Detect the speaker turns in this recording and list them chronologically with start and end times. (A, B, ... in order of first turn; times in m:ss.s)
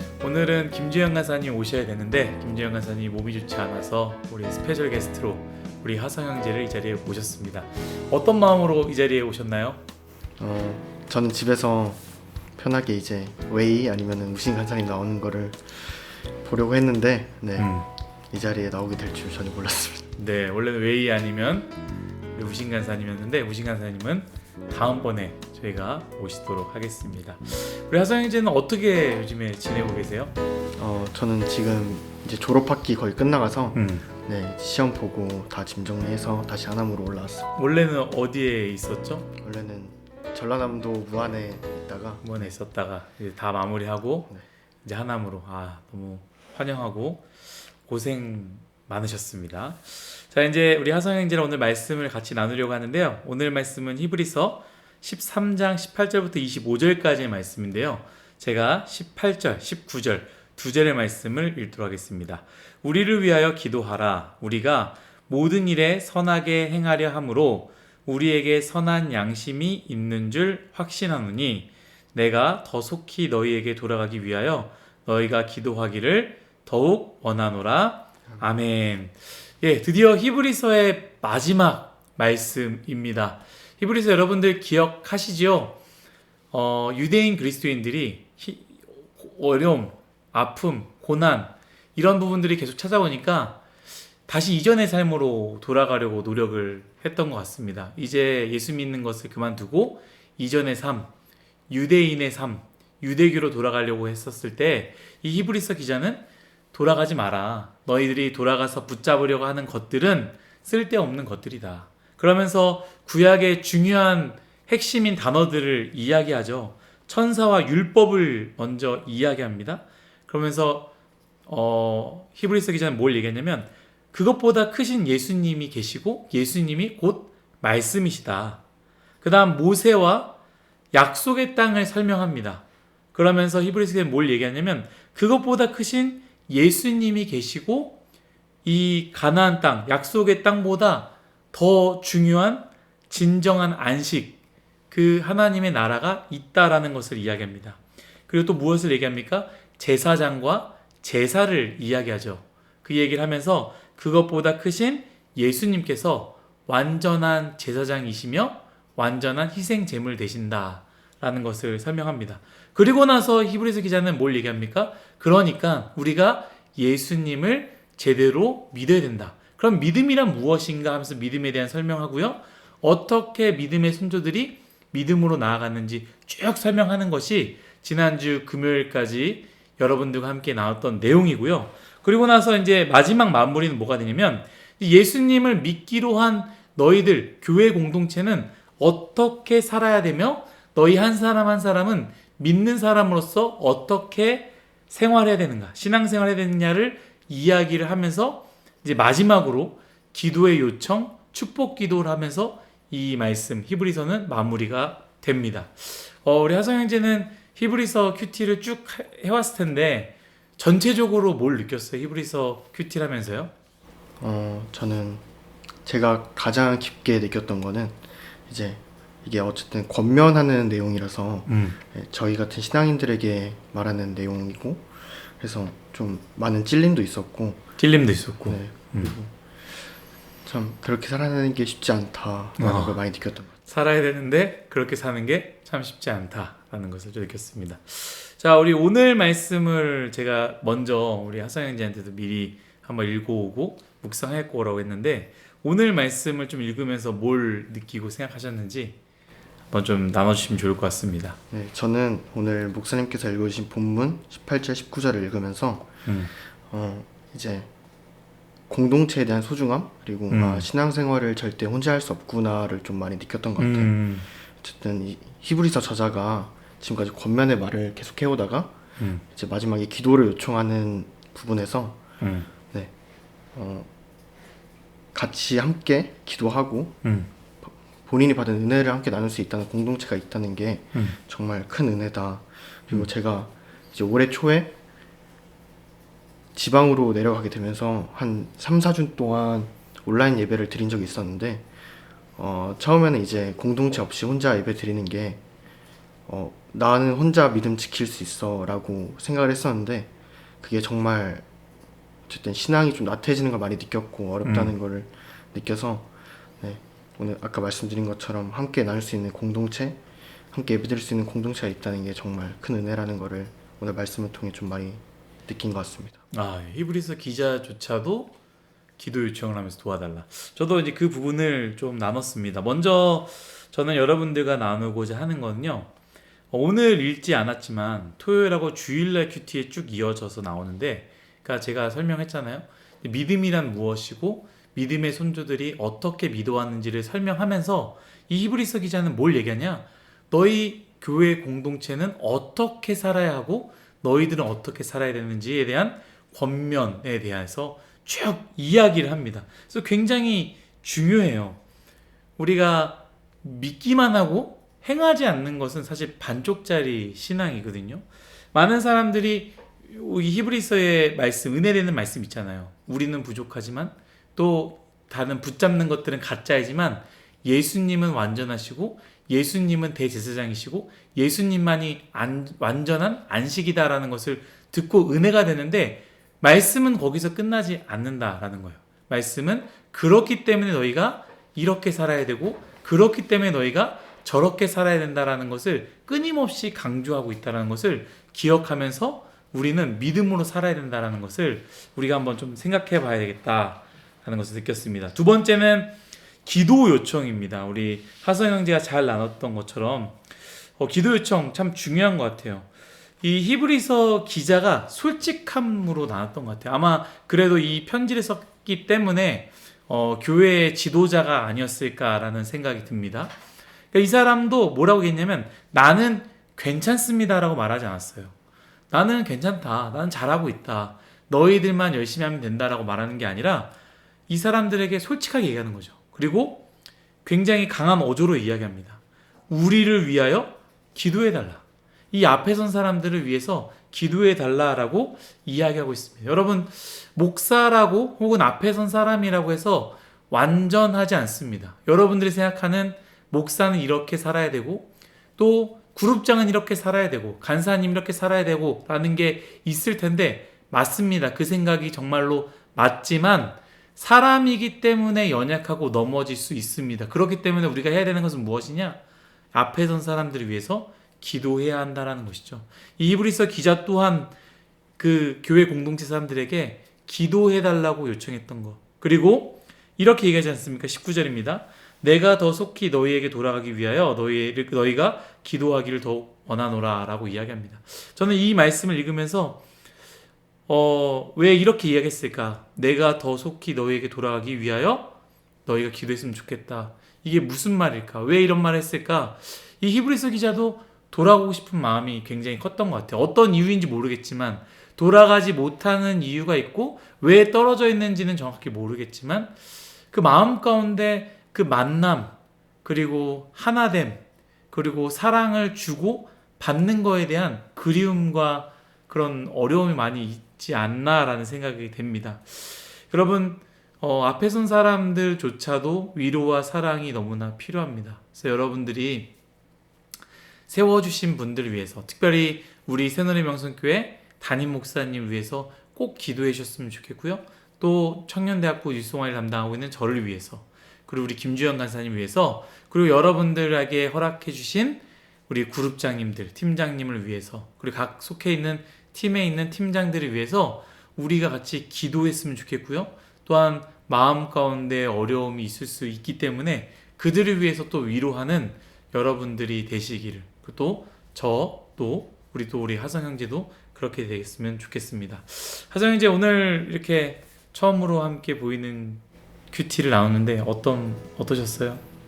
0:00.2-0:09.8 A
0:10.4-0:12.0 B
0:12.6-0:17.7 B
0:17.6-0:17.9 A
0:18.3-0:20.1 B
0:20.2-0:21.7 A
0:22.3-0:30.3 A
0:30.8-0:37.5 B
0:33.7-0:34.1 A
0:37.6-0:39.3 A
0:39.4-0:42.5 B
0:42.2-0:44.3 A
0:44.8-0:47.3 A
0:47.8-1:25.8 A
1:26.5-1:33.6 A
1:34.3-1:41.1 A
1:41.7-2:00.9 A
2:01.5-2:08.6 A
2:09.2-2:10.3 A
2:10.9-2:18.0 A
2:18.6-2:24.4 A
2:24.9-3:33.5 A
3:34.2-3:35.2 B
3:35.8-3:47.6 B
3:41.5-3:41.8 A
3:47.8-3:49.1 A
3:48.5-3:49.4 B
3:50.4-3:53.5 B
3:52.6-3:53.0 A
3:53.6-4:09.0 A
4:09.7-4:11.4 A
4:11.5-4:15.9 B
4:16.0-4:16.3 A
4:16.7-4:17.7 B
4:18.7-4:23.9 B
4:20.3-4:20.7 A
4:23.6-4:24.3 A
4:24.6-4:28.7 B
4:29.0-4:29.2 A
4:29.3-4:32.0 B
4:32.2-4:32.5 A
4:33.5-4:33.9 B
4:35.1-4:37.0 B
4:37.0-4:37.3 A
4:37.6-4:44.7 B
4:46.5-4:51.7 B
4:52.4-4:55.4 B
4:56.3-5:01.4 B
5:02.3-5:10.0 B
5:04.4-5:04.7 A
5:10.5-5:16.2 B
5:16.3-5:18.3 A
5:19.0-5:25.9 A
5:26.5-5:51.6 A
5:52.4-6:40.2 A
6:40.8-6:42.7 A
6:43.2-6:53.3 A
6:53.9-6:58.3 A
6:58.9-7:03.7 A
7:04.3-7:06.6 A
7:07.2-7:39.0 A
7:39.5-7:44.3 A
7:45.0-7:59.6 A
8:00.7-8:05.1 A
8:05.6-8:19.5 A
8:20.1-8:39.3 A
8:40.7-9:22.0 A